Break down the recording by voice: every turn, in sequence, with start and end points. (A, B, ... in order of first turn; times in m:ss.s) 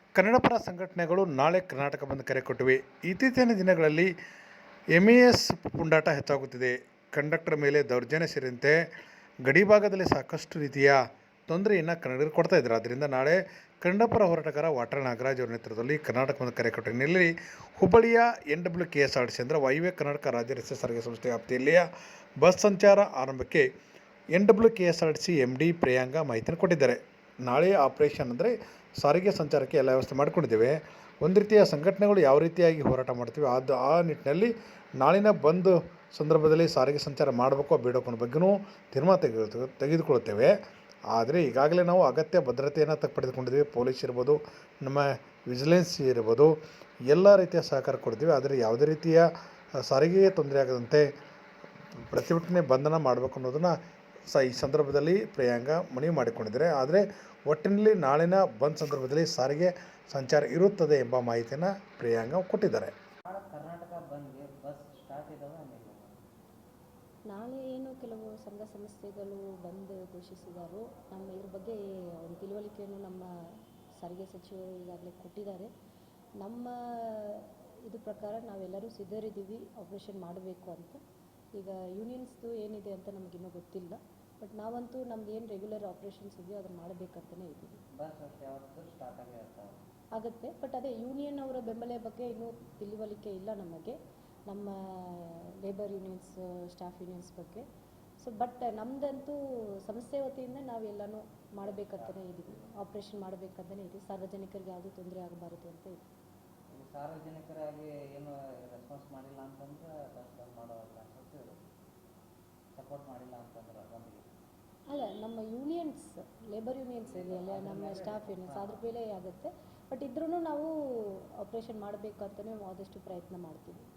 0:00.2-0:04.1 A
0:04.9-0:08.8 A
0:09.4-0:21.9 A
0:22.4-0:23.7 A
0:24.3-0:40.6 A
0:41.1-0:46.5 A
0:47.1-0:51.1 A
0:52.0-0:53.7 A
0:54.3-1:02.9 A
1:03.2-1:06.2 B
1:07.3-1:15.7 C
1:16.4-1:21.0 C
1:21.6-1:27.8 C
1:27.9-1:29.8 B
1:30.1-1:37.7 C
1:38.2-1:46.0 C
1:41.6-1:42.8 B
1:46.7-1:51.6 B
1:52.7-1:54.3 B
1:54.9-2:03.8 C
1:57.0-1:58.9 B